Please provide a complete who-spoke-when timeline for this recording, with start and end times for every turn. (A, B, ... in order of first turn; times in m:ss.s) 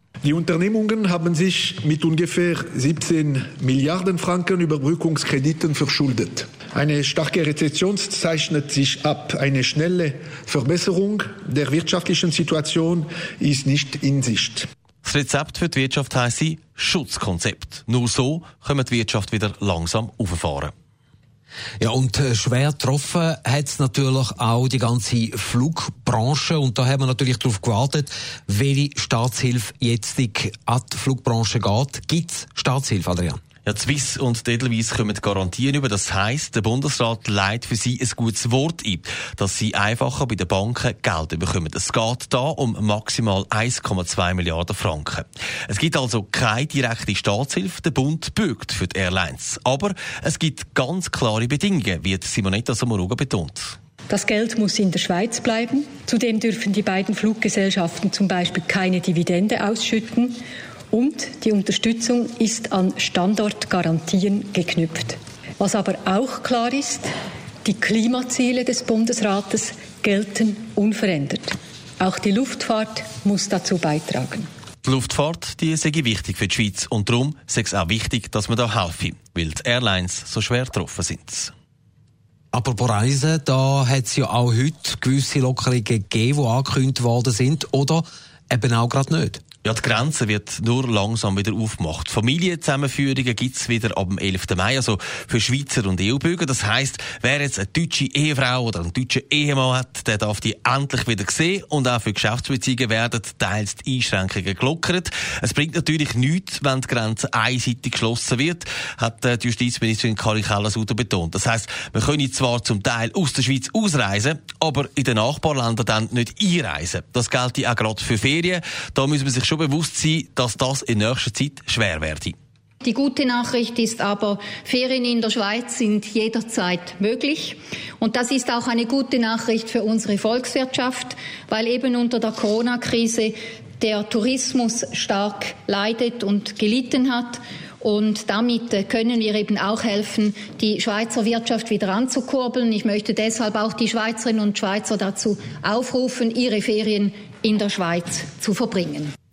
0:00.2-0:14.7 A
0:15.0-0:20.7 B
0:21.8-0:33.4 C
0:33.6-0:53.8 B
0:54.1-1:00.4 D
1:00.9-1:14.5 D
1:14.8-1:21.5 B
1:22.5-1:29.4 C
1:29.6-2:02.4 B
2:02.8-2:29.1 E